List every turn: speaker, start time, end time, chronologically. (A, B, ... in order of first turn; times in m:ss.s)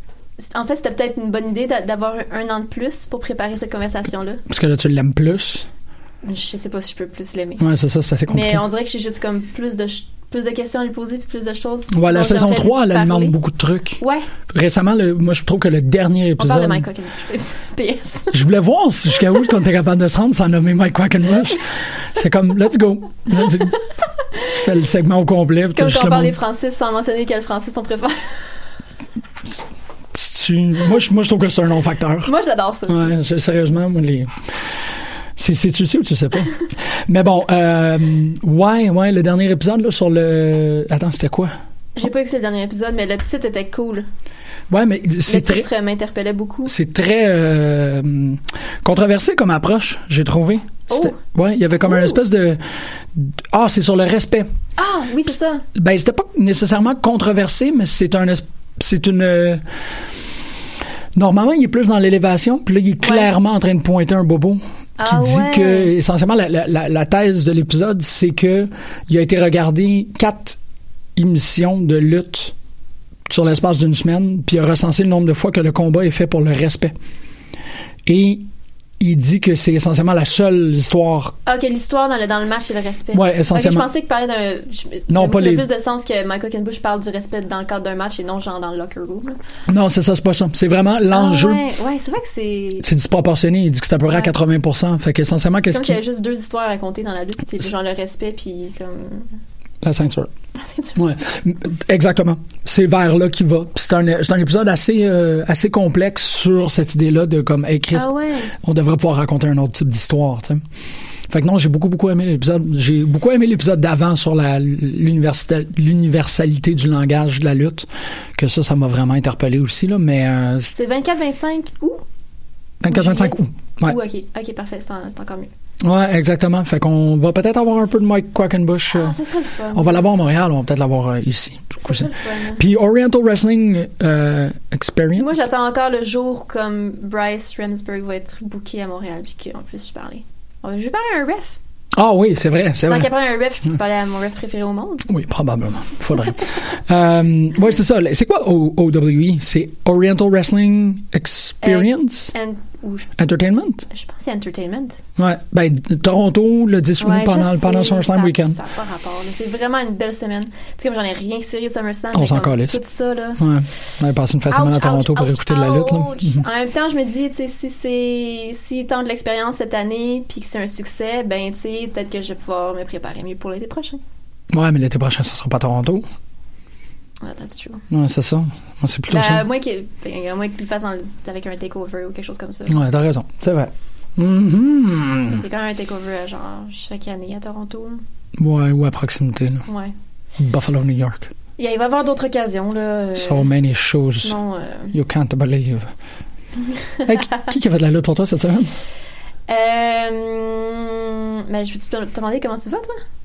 0:00.4-0:04.4 A
0:04.5-0:05.7 B
0:06.2-0:07.6 A
0:07.6-0:08.6 B
0:08.3-0:13.4 A
0:11.9-0:16.9 B
0:14.0-0:14.3 A
0:16.4-0:18.4 A
0:18.3-0:23.8 B
0:24.5-0:26.4 B
0:25.8-0:28.3 A
0:30.1-0:32.3 B
0:32.3-0:33.2 A
0:32.9-0:34.3 B
0:35.4-0:41.5 B
0:42.0-0:44.1 A
0:44.7-0:45.7 B
0:45.3-0:46.7 A
0:46.7-0:52.6 B
0:50.9-0:51.2 A
0:51.8-0:52.2 A
0:53.1-0:54.5 B
0:54.8-0:55.6 A
0:55.8-0:59.6 B
1:01.2-1:10.6 B
1:03.0-1:03.3 A
1:05.0-1:05.9 A
1:11.2-1:12.5 B
1:13.3-1:17.0 B
1:18.1-1:18.5 B
1:19.0-1:21.4 B
1:21.5-1:29.4 A
1:23.1-1:23.9 B
1:25.1-1:25.7 B
1:29.7-1:31.6 B
1:31.1-1:32.9 A
1:32.8-1:36.0 B
1:34.1-1:34.3 A
1:35.6-1:39.3 A
1:39.8-1:40.3 B
1:40.6-1:41.0 A
1:41.0-1:50.6 B
1:47.9-1:48.5 A
1:51.3-2:00.7 B
2:00.7-2:02.0 A
2:02.8-2:04.0 B
2:02.9-2:05.5 A
2:05.8-2:09.2 B
2:08.9-2:10.1 A
2:09.7-2:15.4 B
2:11.8-2:12.6 A
2:15.2-2:21.6 A
2:22.0-2:23.1 B
2:22.8-2:25.0 A
2:25.1-2:32.3 B
2:31.6-2:33.3 A
2:33.2-2:33.8 B
2:33.9-2:35.0 A
2:35.2-2:38.6 B
2:37.0-2:43.4 A
2:42.1-2:42.8 B
2:43.4-2:46.4 B
2:44.5-2:54.0 A
2:54.5-2:56.0 B
2:57.2-2:57.8 A
2:57.9-2:59.4 B
2:59.1-3:02.8 A
3:02.7-3:05.4 B
3:05.3-3:08.0 A
3:08.4-3:09.7 B
3:09.7-3:09.9 A
3:10.4-3:11.3 B
3:11.6-3:13.5 A
3:13.2-3:14.4 B
3:14.0-3:15.0 A
3:14.9-3:15.9 B
3:17.0-3:17.4 A
3:17.1-3:18.7 B
3:19.5-3:23.0 A